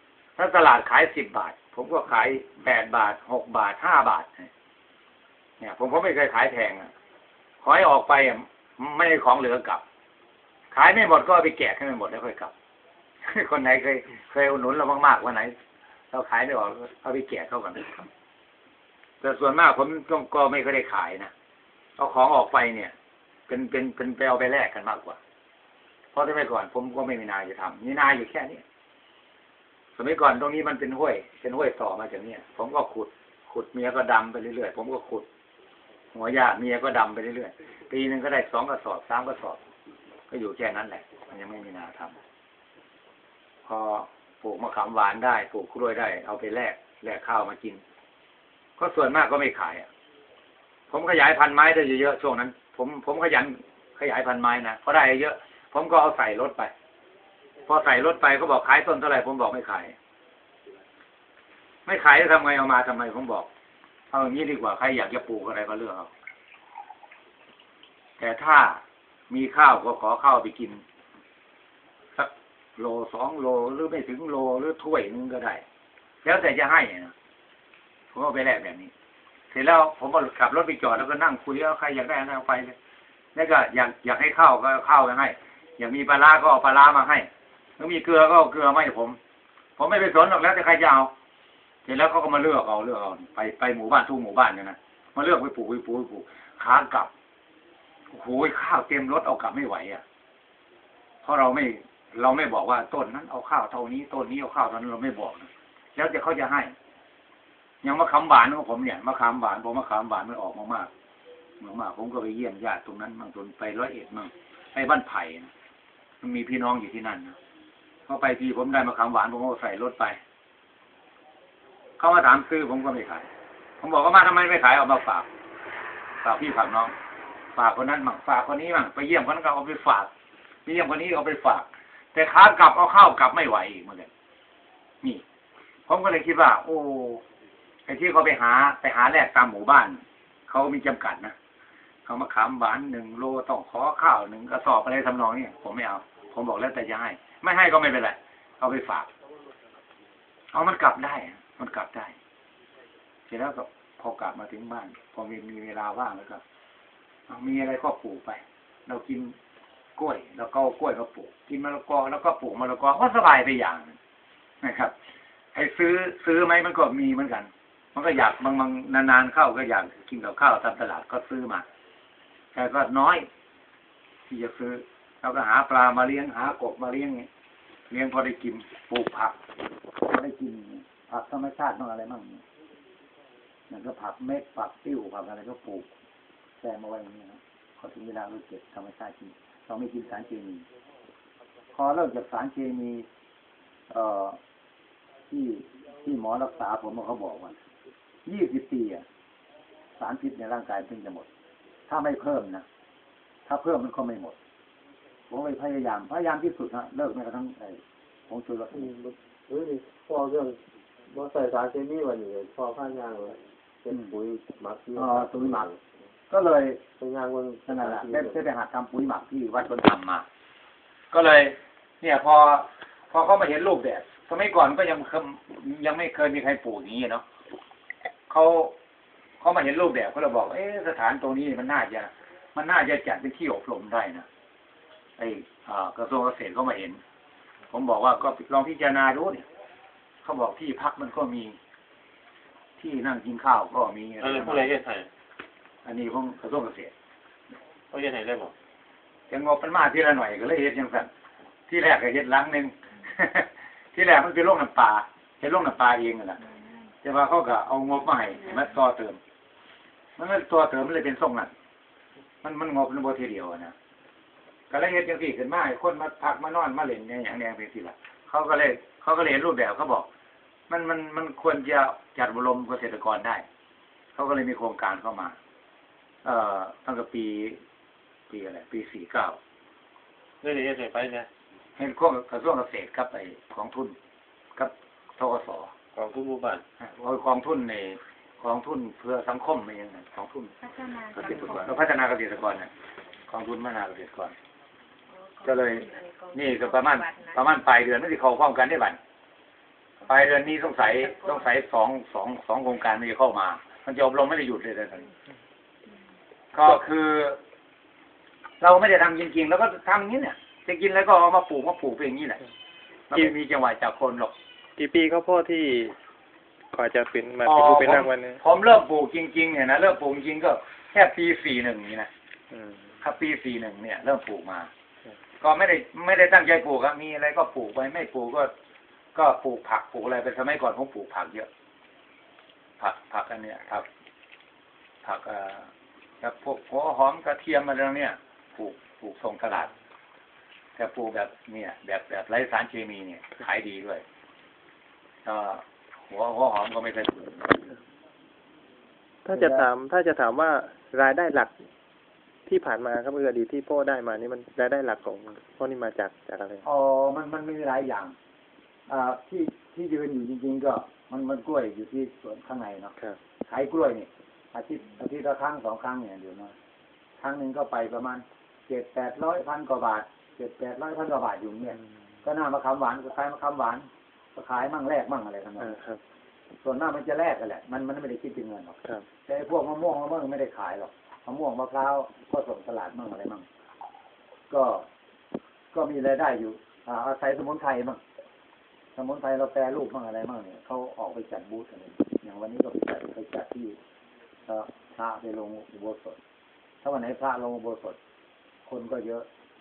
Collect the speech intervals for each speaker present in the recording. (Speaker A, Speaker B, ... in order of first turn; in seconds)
Speaker A: 0.4-4.5, 5.6-6.9, 7.6-9.8, 10.7-12.5, 13.2-15.6, 16.1-18.1, 19.2-21.3, 22.0-22.9, 23.5-25.2, 26.1-28.6, 30.0-35.3, 36.1-39.6, 40.3-42.1, 43.7-47.8, 48.8-49.9, 50.9-56.7, 57.7-60.0, 61.9-63.5, 64.1-66.1, 68.2-70.8, 72.2-75.6, 76.2-77.1, 78.1-78.9, 79.5-82.8, 83.3-89.2, 89.8-91.1, 91.9-97.1, 98.1-100.0, 101.2-106.7, 107.8-110.9, 111.6-115.5, 116.2-117.4, 118.1-120.2, 122.0-123.3, 123.8-125.3, 126.2-126.9, 127.5-130.1, 130.7-134.1, 135.9-137.2, 137.9-141.3, 142.1-149.1, 150.5-152.2, 153.3-156.4, 157.3-159.4, 160.0-164.0, 164.6-164.9, 165.5-171.7, 172.5-173.3, 174.3-177.3, 177.9-179.4, 180.0-182.4, 183.7-185.9, 186.6-190.7, 191.7-193.1, 193.9-194.4, 195.3-197.6, 198.3-199.1, 200.0-201.3, 201.9-202.7, 203.5-204.4, 205.3-208.9, 215.0-215.7, 216.3-216.8, 217.7-220.2, 221.1-227.2, 228.3-228.8, 229.4-234.3, 235.2-237.0, 237.7-239.5, 240.2-241.6, 242.8-244.8, 245.8-246.9, 249.3-251.1, 251.7-256.4, 257.0-259.2, 260.2-261.5, 262.4-263.8, 264.7-270.1, 270.7-273.4, 274.1-275.4, 276.2-277.6, 278.3-279.4, 281.8-283.9, 284.6-285.7, 286.8-290.6, 291.1-292.7, 293.3-294.3, 295.4-299.0, 300.1-305.1, 306.5-307.4, 308.6-312.4, 313.1-314.3, 317.4-322.1, 323.0-324.7, 325.4-328.5, 329.1-331.5, 332.8-333.9, 335.0-339.7, 340.8-344.0, 345.2-347.7, 349.3-349.7, 356.6-358.1, 358.9-366.6, 367.2-375.8, 376.6-383.5, 384.5-384.9, 385.7-388.0, 389.0-393.8, 394.5-396.2, 396.8-398.0, 398.7-399.3
Speaker B: 208.7-215.8, 217.0-218.4
Speaker C: 244.2-245.1, 247.9-248.5, 280.4-281.3, 285.9-286.6
Speaker D: 290.6-291.5, 295.1-297.4
Speaker E: 314.8-316.0, 316.7-318.4, 322.5-322.8, 349.2-351.6, 352.5-356.6, 375.6-376.0